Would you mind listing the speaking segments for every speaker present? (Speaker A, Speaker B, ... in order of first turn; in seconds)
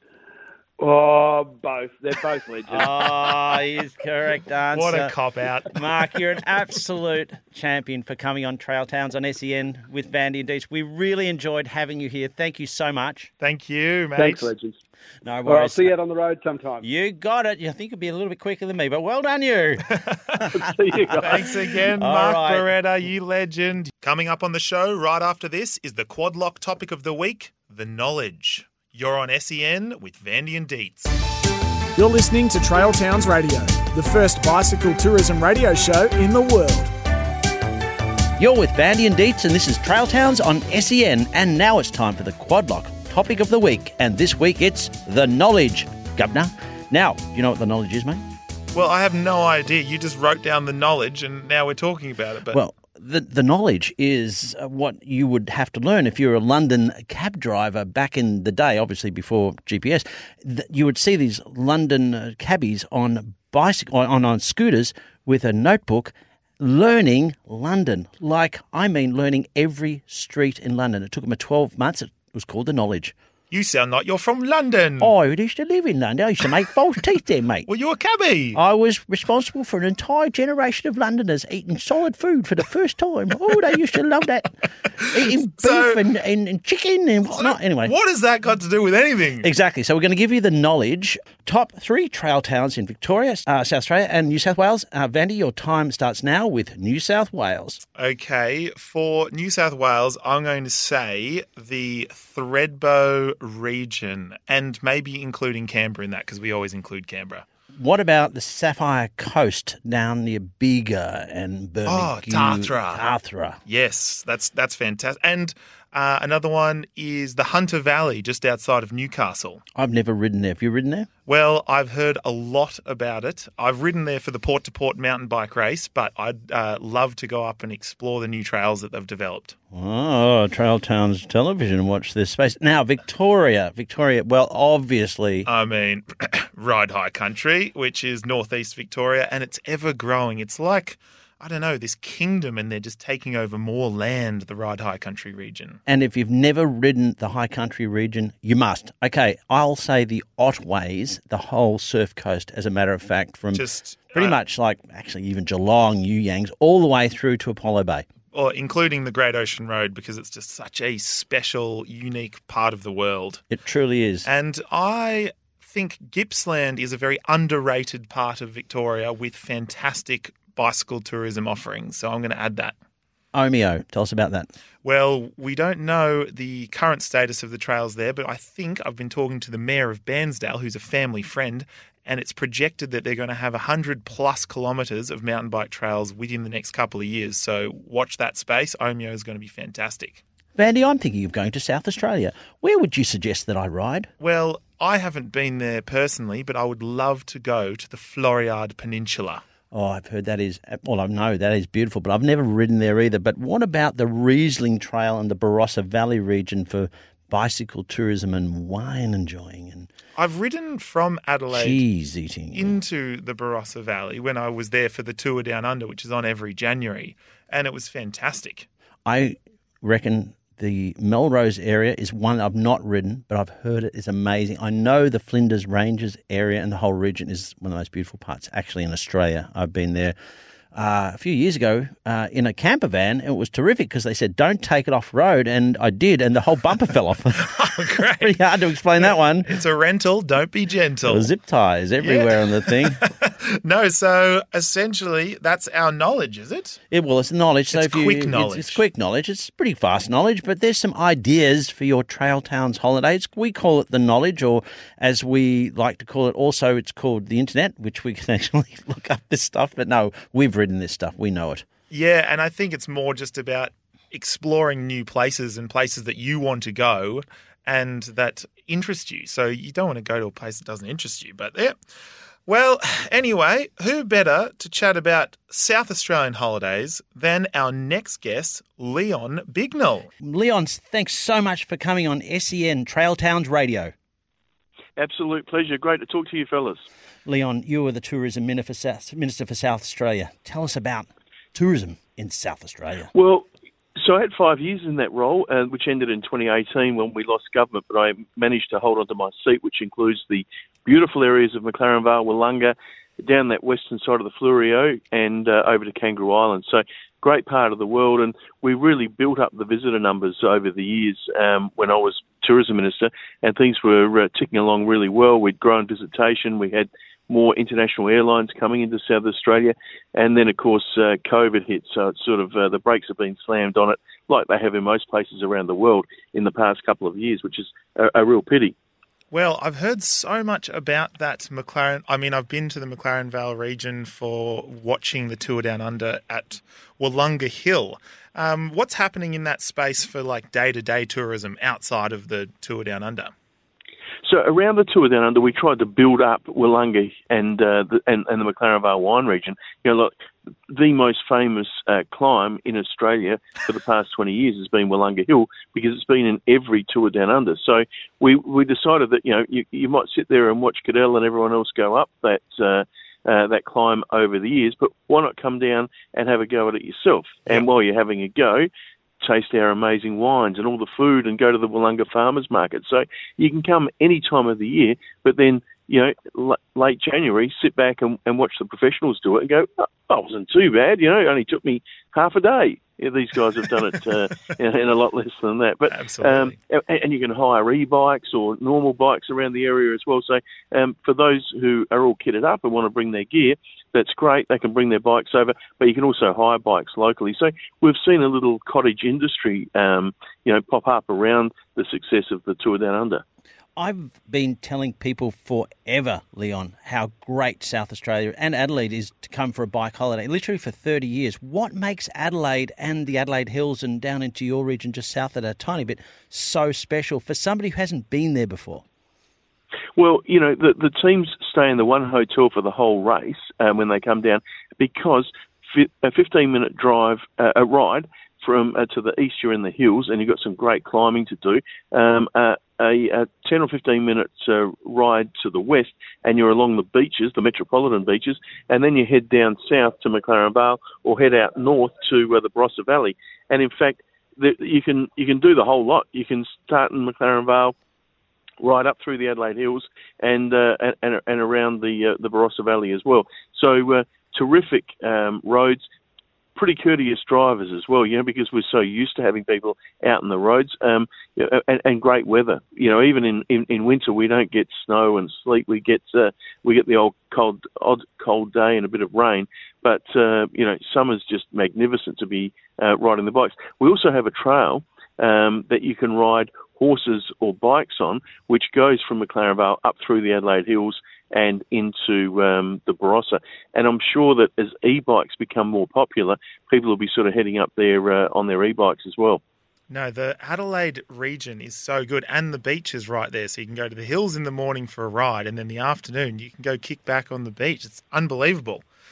Speaker A: 0.8-3.0, 14.2-14.8, 15.4-16.8, 20.5-21.5
Speaker B: 2.7-5.1, 5.7-13.3, 15.2-15.9, 16.8-20.4, 22.0-22.6, 38.4-48.2, 52.5-73.1, 75.0-77.7, 78.5-87.9, 89.4-97.8, 107.8-113.6, 119.7-121.1, 129.7-135.5, 145.9-158.0, 163.5-164.3, 173.3-174.5, 190.6-194.1, 199.7-209.9, 211.5-212.7, 219.1-230.1, 230.7-237.7, 238.2-239.5, 241.1-243.0, 246.9-261.6, 280.2-283.9, 287.2-293.1, 403.8-418.8
Speaker C: 4.7-5.8, 13.4-14.5, 21.2-31.1, 48.7-52.6, 73.5-75.1, 77.7-78.6, 85.0-86.0, 87.3-89.5, 98.0-107.4, 111.9-113.0, 113.7-119.6, 121.2-129.6, 135.4-145.8, 153.5-154.4, 158.3-163.4, 164.2-172.7, 174.8-190.2, 194.2-199.4, 210.2-211.8, 212.5-218.7, 237.4-238.3, 239.0-241.3, 242.0-246.8, 247.7-248.8, 261.9-271.7, 272.4-280.1, 329.3-343.3, 385.9-386.5, 489.9-498.8
Speaker D: 31.9-36.9
Speaker E: 285.0-286.9, 293.1-328.7, 344.2-350.1, 350.7-368.7, 369.2-403.2, 419.9-447.7, 448.6-455.8, 456.5-489.4